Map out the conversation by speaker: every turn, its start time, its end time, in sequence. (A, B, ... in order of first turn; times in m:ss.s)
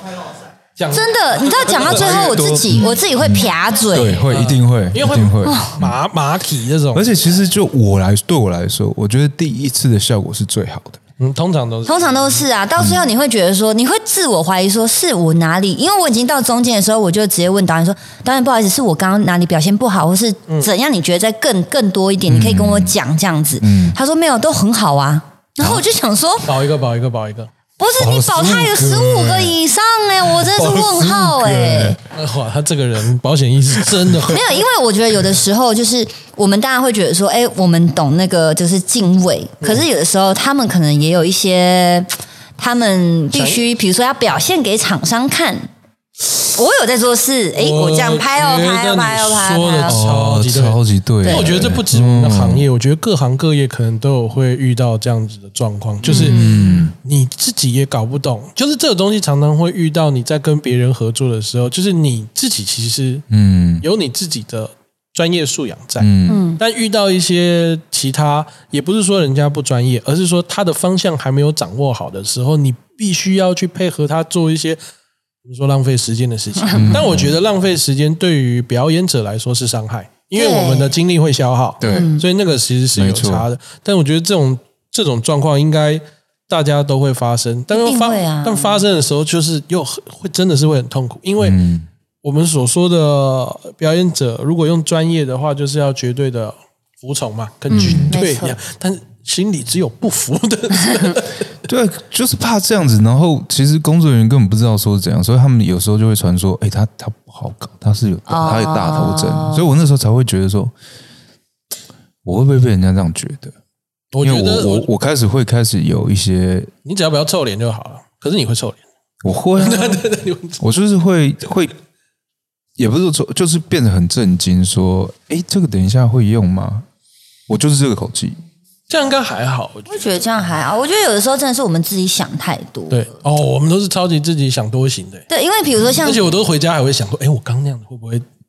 0:00.8-0:02.5 A
0:00.9-0:04.2 B
0:01.8-0:06.0 C
0:04.2-0:07.1 A
0:05.4-0:05.8 B
0:06.9-0:11.0 C
0:11.2-0:12.5 A
0:11.9-0:26.5 B
0:12.8-0:13.1 C
0:22.3-0:23.0 C
0:23.6-0:24.0 C
0:26.4-0:27.5 A
0:27.8-0:32.0 B
0:28.0-0:29.6 C
0:30.4-0:32.0 C
0:32.1-0:34.6 A
0:34.3-0:45.7 B
0:43.3-0:43.6 A
0:46.3-0:50.0 B
0:47.6-0:56.5 A
0:49.9-0:52.7 C
0:51.2-0:51.5 B
0:56.1-0:56.9 B
0:56.1-0:57.0 C
0:57.0-1:03.2 A
1:03.3-1:03.9 C
1:03.8-1:14.8 A
1:06.0-1:06.5 C
1:06.3-1:06.6 B
1:15.4-1:31.6 A
1:16.7-1:17.4 C
1:20.4-1:20.9 B
1:21.8-1:22.1 C
1:21.9-1:22.2 B
1:23.0-1:23.5 C
1:27.7-1:28.8 B
1:31.4-1:31.9 C
1:32.2-1:41.4 A
1:37.7-1:38.1 C
1:37.7-1:38.6 B
1:41.7-1:50.7 C
1:48.3-1:49.7 B
1:52.2-1:53.6 C
1:54.1-1:54.9 A
1:54.2-1:56.7 C
1:56.8-1:58.8 A
1:59.2-2:00.0 C
1:59.6-2:00.6 A
2:00.6-2:01.7 C
2:02.8-2:06.9 C
2:07.5-2:08.4 C
2:08.9-2:10.2 A
2:09.9-2:13.0 B
2:12.9-2:15.3 A
2:15.3-2:16.3 B
2:16.0-2:18.2 A